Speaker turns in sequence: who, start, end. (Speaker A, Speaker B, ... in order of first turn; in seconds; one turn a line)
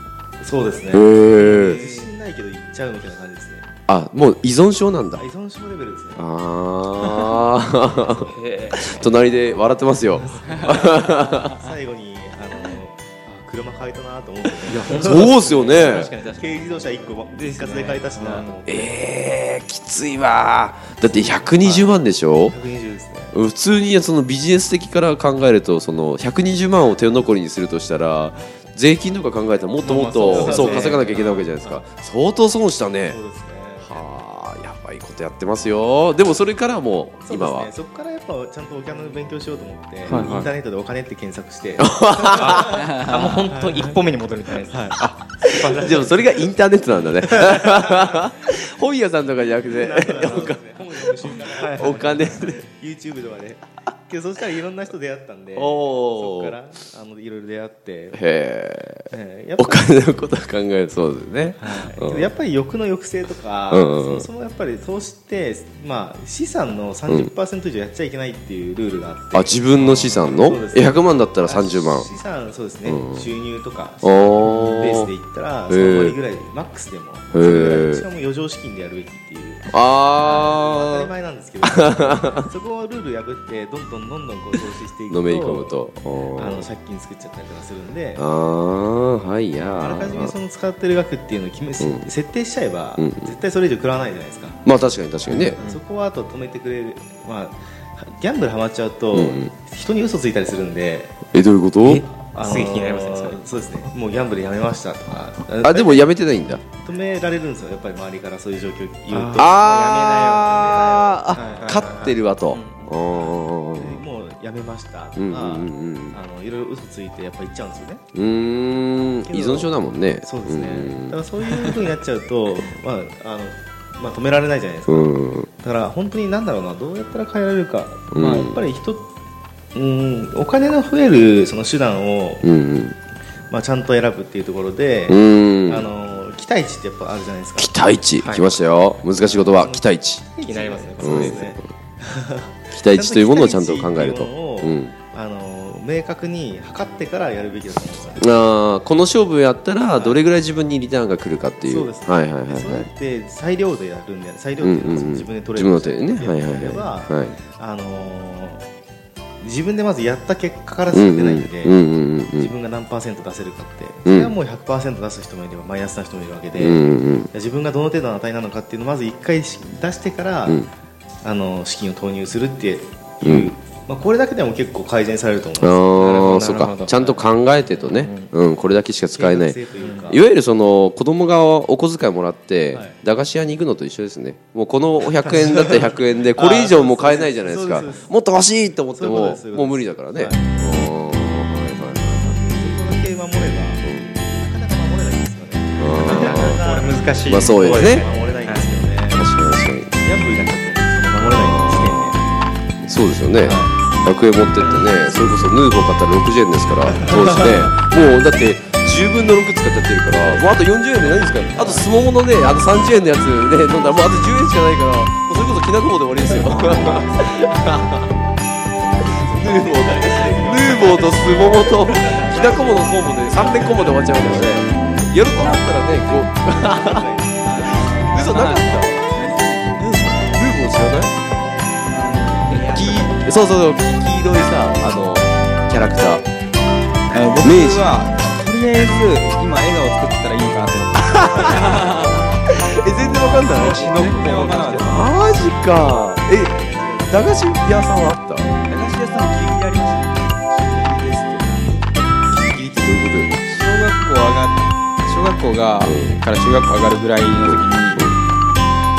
Speaker A: 0.4-3.7
Speaker B: 0.9-1.8
Speaker C: 1.3-2.1
Speaker B: 3.9-5.2
Speaker A: 5.2-6.2
Speaker B: 6.2-11.6
Speaker C: 8.2-9.1
Speaker A: 10.2-18.9
Speaker C: 14.7-18.5
Speaker B: 14.9-16.1
Speaker B: 18.6-22.6
Speaker A: 21.1-21.6
Speaker C: 21.6-21.9
Speaker A: 22.5-23.4
Speaker B: 23.3-33.2
Speaker C: 29.8-31.5
Speaker A: 30.2-31.8
Speaker A: 33.1-34.1
Speaker B: 33.8-37.7
Speaker A: 37.2-44.0
Speaker B: 40.1-40.4
Speaker C: 40.1-40.5
Speaker B: 41.8-42.9
Speaker C: 42.2-46.5
Speaker D: 42.9-43.1
Speaker B: 45.5-52.6
Speaker A: 45.8-46.0
Speaker C: 47.1-47.9
Speaker A: 49.6-58.2
Speaker C: 51.5-52.5
Speaker B: 55.5-56.6
Speaker B: 58.1-62.3
Speaker A: 59.1-60.1
Speaker A: 61.6-85.8
Speaker C: 61.6-62.0
Speaker B: 63.7-64.3
Speaker B: 69.3-72.1
Speaker B: 72.8-73.3
Speaker B: 74.0-75.1
Speaker B: 75.7-76.2
Speaker B: 77.3-78.0
Speaker B: 79.7-81.1
Speaker C: 80.2-80.5
Speaker B: 81.6-82.4
Speaker B: 85.1-86.7
Speaker A: 86.3-88.3
Speaker B: 88.2-90.3
Speaker A: 89.6-94.6
Speaker B: 91.8-92.1
Speaker B: 93.0-93.3
Speaker B: 94.6-95.6
Speaker C: 95.3-95.8
Speaker A: 95.5-101.1
Speaker B: 99.1-99.5
Speaker B: 101.3-102.0
Speaker C: 101.8-103.4
Speaker A: 102.2-106.2
Speaker B: 105.6-106.6
Speaker A: 106.7-109.6
Speaker C: 109.1-112.6
Speaker B: 109.4-114.0
Speaker A: 110.5-118.0
Speaker B: 115.2-116.2
Speaker B: 118.1-121.2
Speaker A: 119.2-129.1
Speaker B: 124.9-125.5
Speaker B: 128.1-128.6
Speaker A: 129.8-132.5
Speaker B: 132.4-132.9
Speaker A: 133.5-137.7
Speaker B: 135.1-135.9
Speaker B: 137.6-140.3
Speaker C: 138.2-138.6
Speaker C: 139.2-139.5
Speaker A: 139.3-148.3
Speaker C: 140.4-141.5
Speaker B: 141.0-141.6
Speaker B: 142.7-144.9
Speaker B: 148.2-152.9
Speaker A: 151.6-158.6
Speaker B: 154.6-157.4
Speaker A: 159.4-170.7
Speaker B: 160.9-162.5
Speaker B: 164.0-164.3
Speaker B: 166.5-167.3
Speaker A: 171.2-176.2
Speaker B: 173.2-173.5
Speaker B: 175.6-192.4
Speaker C: 175.9-177.2
Speaker C: 177.8-178.3
Speaker A: 179.1-180.2
Speaker C: 179.8-180.1
Speaker A: 182.7-183.0
Speaker A: 185.3-185.8
Speaker A: 186.3-188.1
Speaker A: 188.9-190.6
Speaker A: 192.2-199.2
Speaker B: 193.8-194.1
Speaker B: 195.8-196.6
Speaker C: 196.0-198.8
Speaker B: 197.2-198.1
Speaker B: 199.1-199.9
Speaker A: 200.0-202.3
Speaker B: 201.3-202.1
Speaker B: 202.8-218.0
Speaker C: 204.6-205.0
Speaker A: 204.7-205.6
Speaker A: 206.9-207.7
Speaker C: 207.1-207.6
Speaker C: 211.2-212.0
Speaker A: 216.2-218.0
Speaker C: 216.4-217.0
Speaker A: 219.0-224.4
Speaker C: 219.0-224.5
Speaker B: 219.3-227.0
Speaker A: 225.0-228.2
Speaker D: 227.5-229.9
Speaker B: 227.9-229.0
Speaker B: 229.8-231.1
Speaker D: 231.9-232.7
Speaker C: 232.4-233.3
Speaker B: 232.7-236.2
Speaker D: 237.1-242.4
Speaker B: 237.4-237.9
Speaker B: 241.1-241.7
Speaker B: 242.5-244.0
Speaker D: 243.4-245.0
Speaker C: 243.6-245.0
Speaker B: 244.8-248.5
Speaker A: 245.8-247.4
Speaker D: 248.7-252.4
Speaker B: 252.3-253.4
Speaker D: 253.4-258.1
Speaker B: 255.8-256.2
Speaker B: 257.4-258.2